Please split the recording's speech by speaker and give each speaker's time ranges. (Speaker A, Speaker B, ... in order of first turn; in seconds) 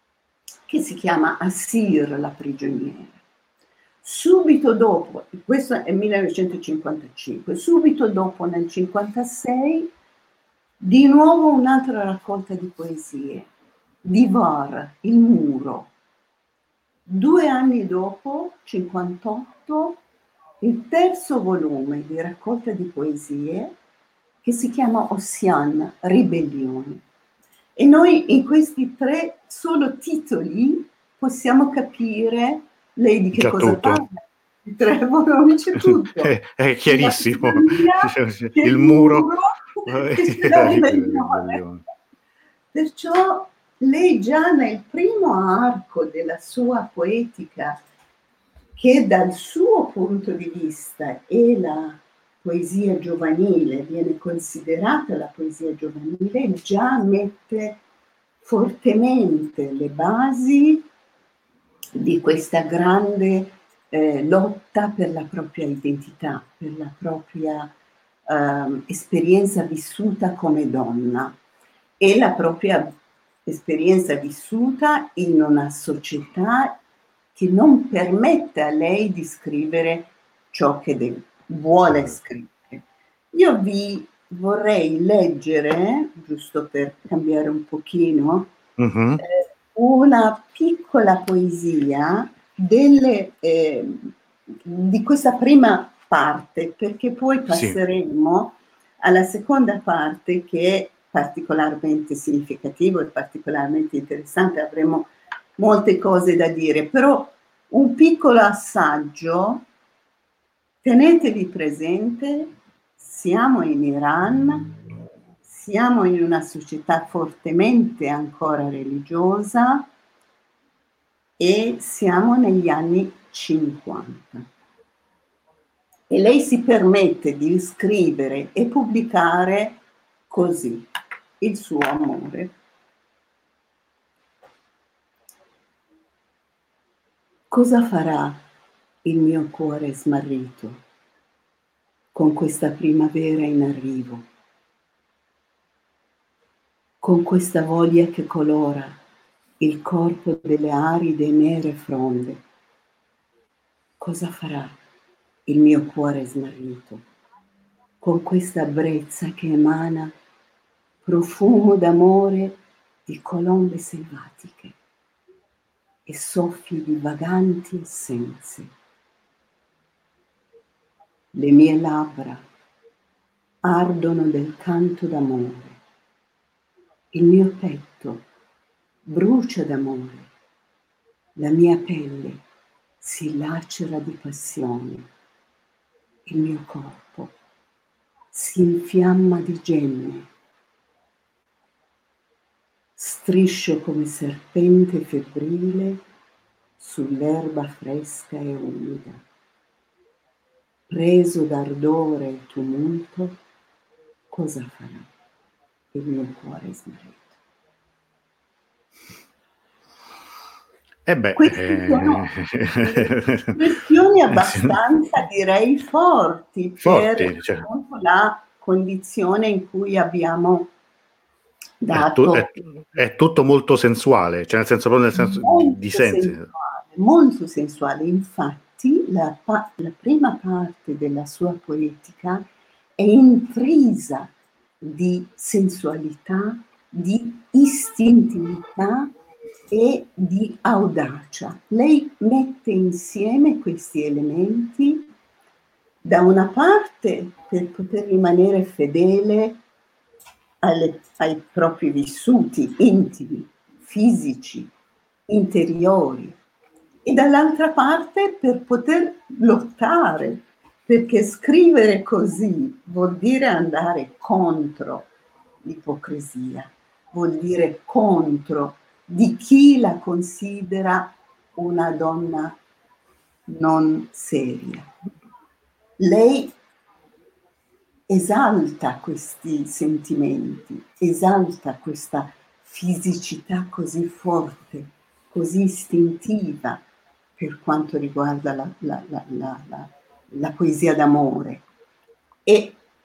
Speaker A: 0.7-3.2, 4.0-9.9, 10.8-13.5, 14.0-15.9, 17.1-20.0, 20.6-23.7, 24.4-27.0, 27.8-36.3, 36.9-41.6, 42.7-47.8, 48.8-57.8, 58.4-60.8, 61.9-67.7, 68.3-71.3, 72.0-72.9, 73.5-76.8, 77.3-88.5, 89.2-94.1, 94.6-109.6, 110.8-114.7, 115.5-119.8, 121.4-124.4, 126.1-130.9, 131.4-132.5, 137.5-138.4, 139.0-140.8, 142.1-144.2, 147.0-149.0, 149.6-152.4, 154.0-154.7, 155.5-157.0, 158.0-160.1, 161.0-164.7, 166.1-168.7, 171.3-172.4, 173.6-175.8, 177.1-178.2, 179.1-180.3, 181.3-182.4, 183.0-185.1, 186.2-187.3, 188.3-190.3, 193.0-196.0, 196.8-199.2, 200.9-203.4, 204.3-205.1, 205.9-207.3, 211.4-212.3, 212.8-220.7, 221.8-222.6, 225.2-232.4, 233.0-239.1, 239.7-245.1, 246.0-249.6, 250.6-254.7, 255.3-256.4, 257.0-265.1, 265.6-272.6, 273.5-274.9, 276.0-276.5, 278.1-286.8, 287.4-291.6, 292.4-292.8
Speaker B: 33.4-34.0, 35.8-39.3, 39.9-41.8, 88.8-89.2, 97.5-97.8, 211.1-213.6, 214.3-214.8, 216.8-217.6, 221.9-226.5